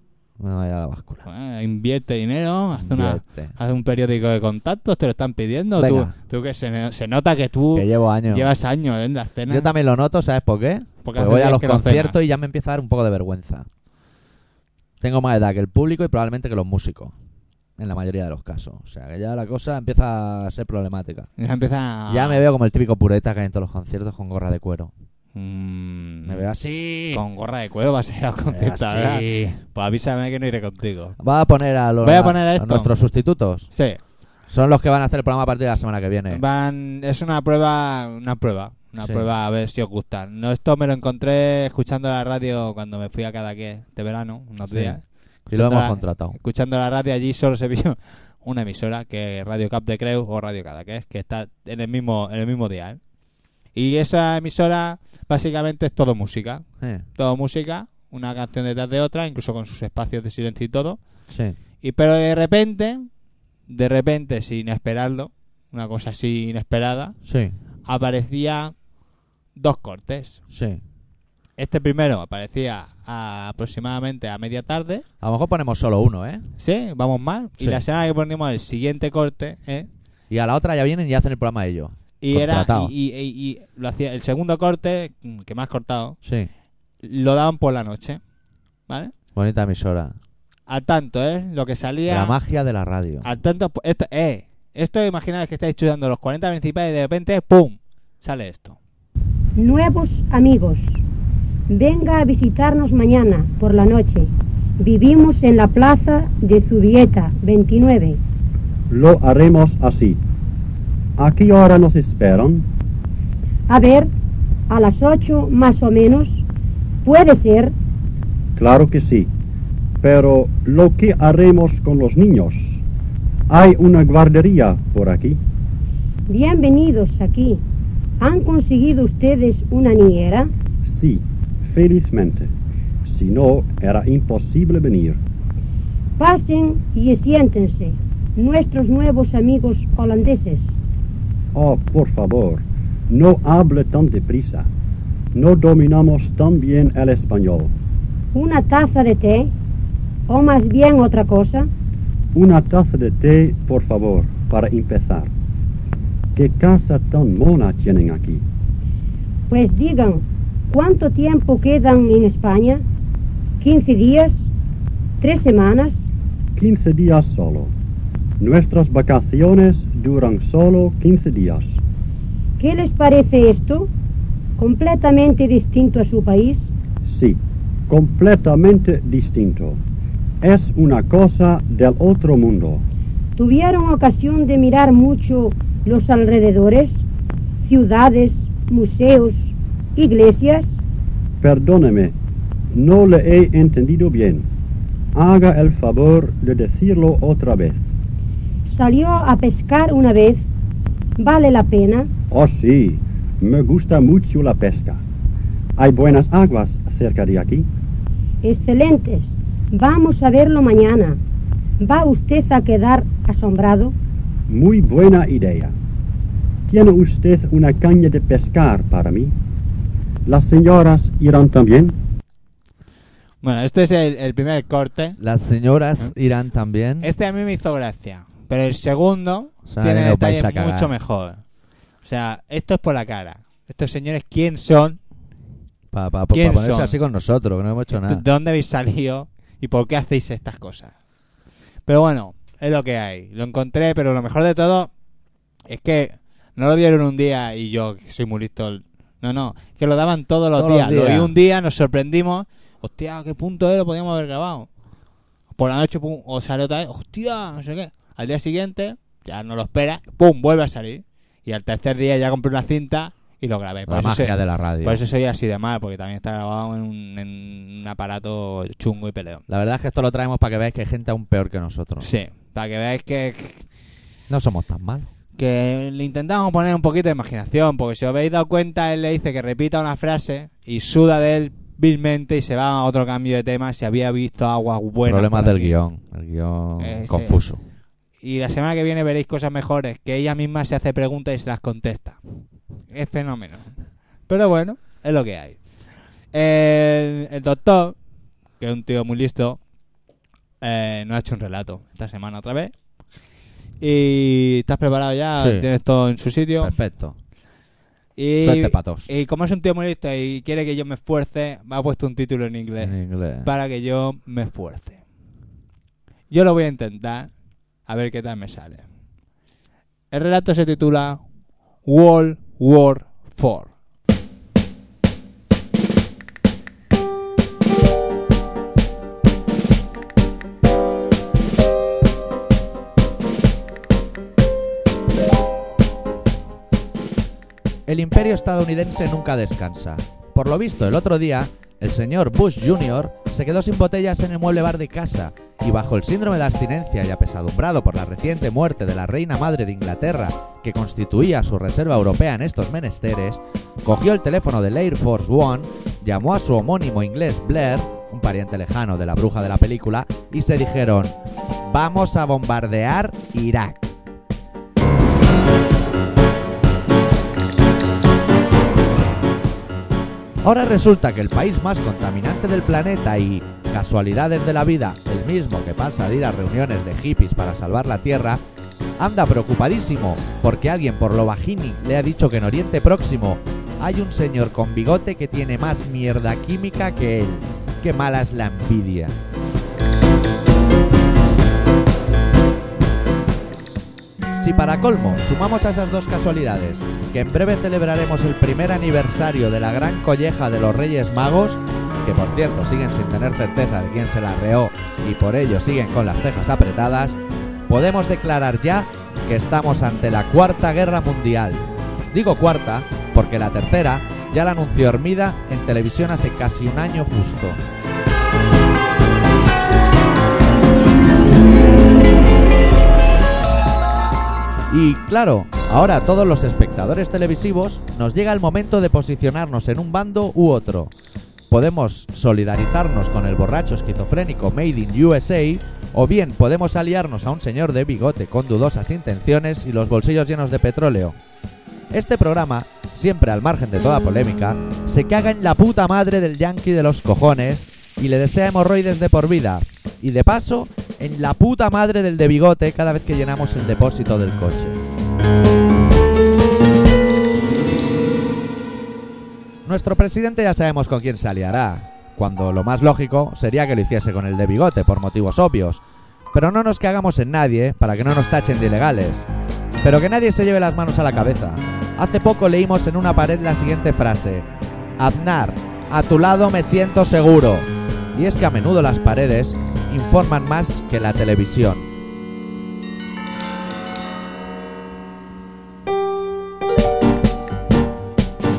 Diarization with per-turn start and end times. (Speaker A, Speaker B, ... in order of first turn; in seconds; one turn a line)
Speaker A: 0.4-1.2
Speaker B: 1.2-9.7
Speaker A: 2.8-3.5
Speaker A: 5.8-6.1
Speaker A: 7.7-8.5
Speaker A: 9.5-13.7
Speaker B: 11.0-12.2
Speaker A: 15.0-17.1
Speaker A: 17.8-21.3
Speaker B: 21.4-22.4
Speaker A: 22.1-24.9
Speaker B: 25.3-26.4
Speaker A: 26.2-27.2
Speaker B: 27.1-31.1
Speaker A: 28.5-29.6
Speaker A: 31.2-33.7
Speaker B: 32.0-32.9
Speaker B: 33.7-34.0
Speaker A: 34.5-36.4
Speaker B: 36.3-53.0
Speaker A: 39.0-39.2
Speaker A: 44.7-46.4
Speaker B: 53.7-61.0
Speaker A: 61.3-61.5
Speaker B: 61.8-63.1
Speaker B: 63.7-67.2
Speaker A: 67.2-67.5
Speaker B: 67.8-68.7
Speaker B: 69.5-70.4
Speaker A: 70.5-70.8
Speaker B: 71.6-75.0
Speaker A: 75.2-76.5
Speaker B: 76.6-79.9
Speaker A: 80.3-82.9
Speaker B: 82.2-86.2
Speaker A: 86.2-86.5
Speaker B: 87.0-88.2
Speaker B: 88.9-89.1
Speaker A: 89.3-90.1
Speaker B: 90.7-92.4
Speaker A: 92.1-93.2
Speaker B: 93.2-98.8
Speaker C: 99.5-101.0
Speaker C: 101.7-108.2
Speaker D: 108.9-110.2
Speaker D: 111.2-112.7
Speaker C: 113.7-114.1
Speaker C: 114.7-116.4
Speaker C: 117.0-117.7
Speaker D: 118.6-119.3
Speaker D: 120.0-122.8
Speaker D: 123.5-125.4
Speaker C: 126.3-127.6
Speaker C: 128.2-130.5
Speaker D: 130.8-132.5
Speaker D: 133.0-135.2
Speaker C: 136.2-140.7
Speaker D: 141.5-144.7
Speaker D: 145.3-147.7
Speaker C: 148.3-149.5
Speaker C: 150.3-151.7
Speaker D: 152.3-155.3
Speaker D: 156.3-158.4
Speaker C: 159.5-162.8
Speaker C: 163.6-164.5
Speaker C: 165.2-166.1
Speaker D: 166.6-167.7
Speaker D: 168.4-171.8
Speaker C: 172.6-173.9
Speaker C: 174.6-176.7
Speaker D: 177.1-179.8
Speaker D: 180.4-182.8
Speaker C: 183.4-187.0
Speaker C: 187.6-190.8
Speaker D: 191.4-192.1
Speaker D: 192.7-194.5
Speaker D: 195.1-197.8
Speaker C: 198.7-200.5
Speaker C: 201.2-202.1
Speaker D: 202.3-205.0
Speaker D: 205.8-207.7
Speaker C: 208.4-211.2
Speaker C: 211.8-213.9
Speaker D: 214.5-215.7
Speaker D: 216.7-219.3
Speaker D: 220.2-221.9
Speaker B: 223.4-225.2
Speaker A: 225.2-227.1
Speaker B: 227.0-231.4
Speaker A: 229.7-230.9
Speaker B: 232.0-235.0
Speaker A: 235.9-238.2
Speaker B: 236.3-237.0
Speaker B: 237.9-240.9
Speaker B: 241.8-244.9
Speaker B: 245.7-254.7
Speaker A: 250.5-251.3
Speaker B: 255.6-269.4
Speaker A: 263.9-265.0
Speaker A: 269.5-272.1
Speaker B: 272.0-273.6
Speaker A: 274.3-275.1
Speaker B: 275.4-285.8
Speaker A: 285.0-287.6
Speaker B: 286.8-287.4
Speaker B: 288.2-292.2
Speaker B: 292.9-293.8
Speaker B: 294.3-295.6
Speaker B: 296.3-298.0
Speaker B: 298.6-299.6
Speaker B: 300.6-302.7
Speaker B: 303.8-306.8
Speaker A: 305.3-305.7
Speaker A: 306.6-307.2
Speaker B: 308.2-315.0
Speaker A: 308.4-309.1
Speaker A: 312.8-313.5
Speaker B: 316.3-317.3
Speaker B: 317.8-318.9
Speaker B: 320.1-321.2
Speaker B: 321.8-323.7
Speaker A: 337.9-361.1
Speaker A: 361.6-363.9
Speaker A: 370.4-378.4
Speaker A: 379.0-389.1
Speaker A: 394.3-417.6
Speaker A: 424.7-430.9
Speaker A: 431.5-441.2
Speaker A: 441.9-454.8
Speaker A: 459.6-469.2
Speaker A: 469.8-474.5
Speaker A: 475.0-481.9